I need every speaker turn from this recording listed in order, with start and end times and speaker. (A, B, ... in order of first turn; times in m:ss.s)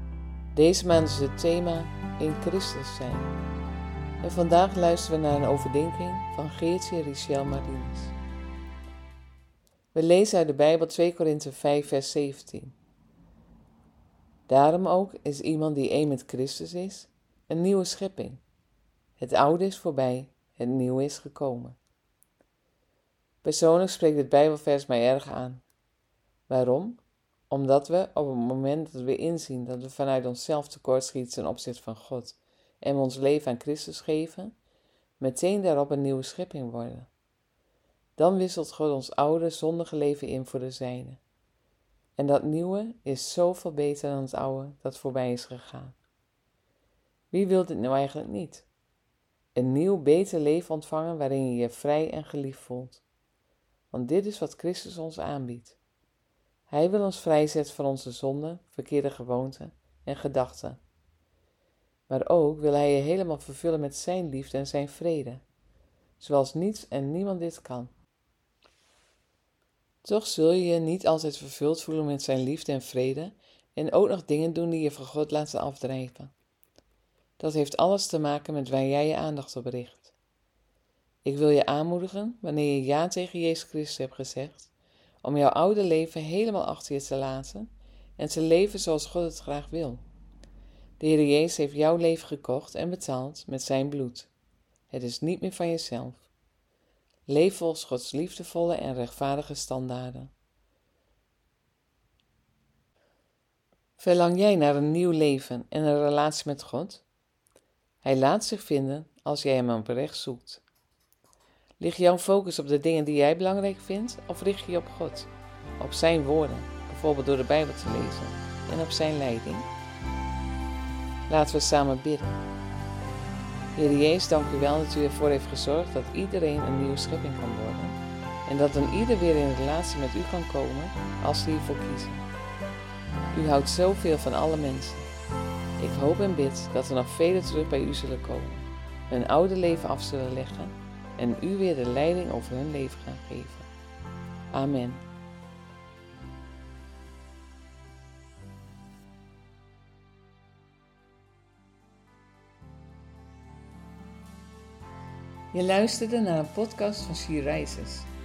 0:00.5-0:03.3 A
0:04.2-0:08.1 A
0:09.9-0:12.7 A
0:14.5-0:18.4 A
0:19.2-0:21.8 A
0:23.4-0:25.6 A
0:26.5-0:34.6 A
0:35.2-0:37.1 A
0:38.2-0:41.2 A
0:42.2-0:46.0 A
0:47.3-0:48.7 A
0:49.6-0:53.0 A
0:53.9-0:55.8 A
0:56.7-1:00.8 A
1:02.1-1:05.4 A
1:06.2-1:07.9 A
1:10.0-1:16.3 A
1:17.4-1:20.1 A
1:21.2-1:24.7 A
1:25.2-1:30.0 A
1:31.0-1:34.3 A
1:34.9-1:36.3 A
1:37.3-1:40.3 A
1:44.0-1:47.0 A
1:48.0-1:50.6 A
1:51.8-1:59.7 A
2:01.3-2:02.4 A
2:03.8-2:12.3 A
2:13.3-2:15.1 A
2:15.8-2:23.7 A
2:24.5-2:25.0 A
2:35.5-2:38.1 A